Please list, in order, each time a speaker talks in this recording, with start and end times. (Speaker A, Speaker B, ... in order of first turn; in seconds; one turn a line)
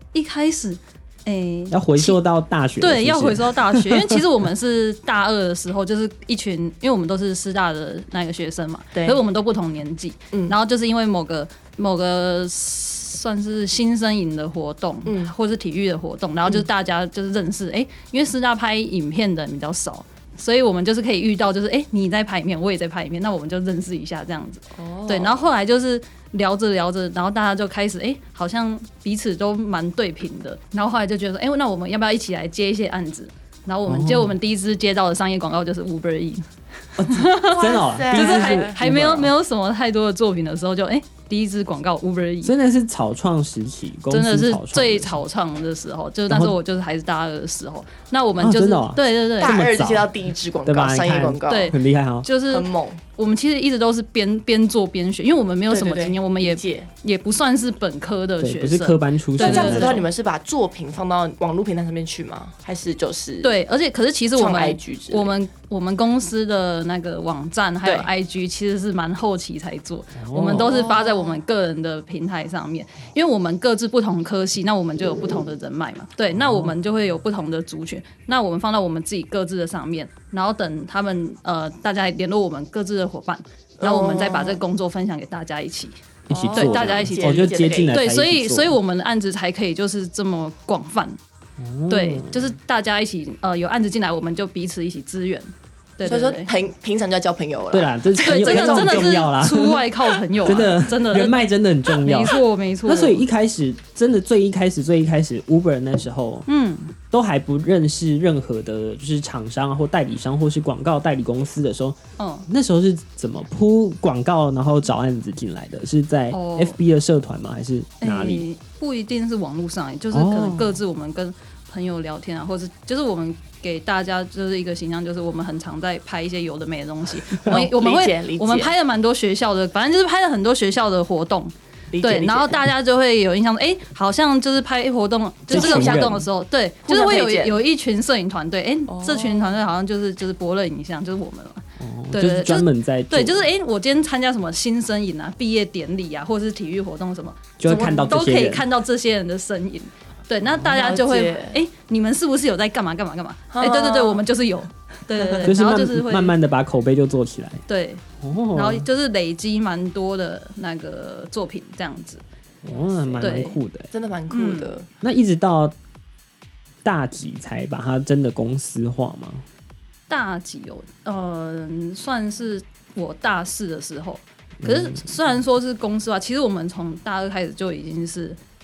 Speaker A: 0.1-2.2
Speaker B: 1.7-4.2
Speaker A: 2.8-36.4
Speaker C: 8.9-9.2
Speaker C: 15.1-15.3
Speaker C: 24.7-25.4
Speaker B: 33.9-34.3
Speaker B: 37.0-39.3
Speaker A: 37.1-42.5
Speaker C: 37.4-38.8
Speaker B: 42.4-45.2
Speaker A: 44.1-49.6
Speaker B: 46.3-46.6
Speaker B: 48.4-50.1
Speaker C: 49.4-51.8
Speaker B: 50.6-52.2
Speaker A: 51.5-60.1
Speaker C: 52.5-53.0
Speaker C: 55.7-56.9
Speaker B: 58.4-60.0
Speaker C: 59.4-63.5
Speaker A: 63.4-86.0
Speaker C: 64.3-65.4
Speaker C: 67.8-68.1
Speaker B: 70.1-70.8
Speaker C: 70.6-71.4
Speaker B: 76.3-76.7
Speaker C: 83.8-84.6
Speaker B: 86.3-88.8
Speaker C: 86.3-88.0
Speaker A: 86.5-91.2
Speaker B: 91.6-92.5
Speaker A: 91.9-96.5
Speaker C: 96.0-99.2
Speaker B: 97.7-99.9
Speaker A: 98.2-103.2
Speaker B: 100.4-106.5
Speaker A: 106.5-106.9
Speaker B: 107.1-112.0
Speaker A: 112.2-112.5
Speaker B: 112.5-118.5
Speaker A: 116.3-116.8
Speaker A: 118.0-156.3
Speaker B: 120.1-120.8
Speaker C: 127.5-128.7
Speaker C: 131.9-132.7
Speaker C: 135.5-136.1
Speaker B: 135.5-136.3
Speaker C: 136.8-137.6
Speaker C: 138.9-139.6
Speaker B: 141.8-143.5
Speaker B: 147.6-148.6
Speaker C: 147.7-147.9
Speaker C: 150.6-151.6
Speaker C: 153.5-154.2
Speaker C: 155.2-155.5
Speaker B: 155.4-157.6
Speaker A: 157.7-162.2
Speaker B: 158.2-158.9
Speaker B: 162.6-163.9
Speaker C: 163.0-164.9
Speaker A: 163.2-163.6
Speaker A: 164.3-164.7
Speaker B: 165.0-165.7
Speaker B: 166.8-169.4
Speaker A: 170.1-178.4
Speaker B: 174.6-175.0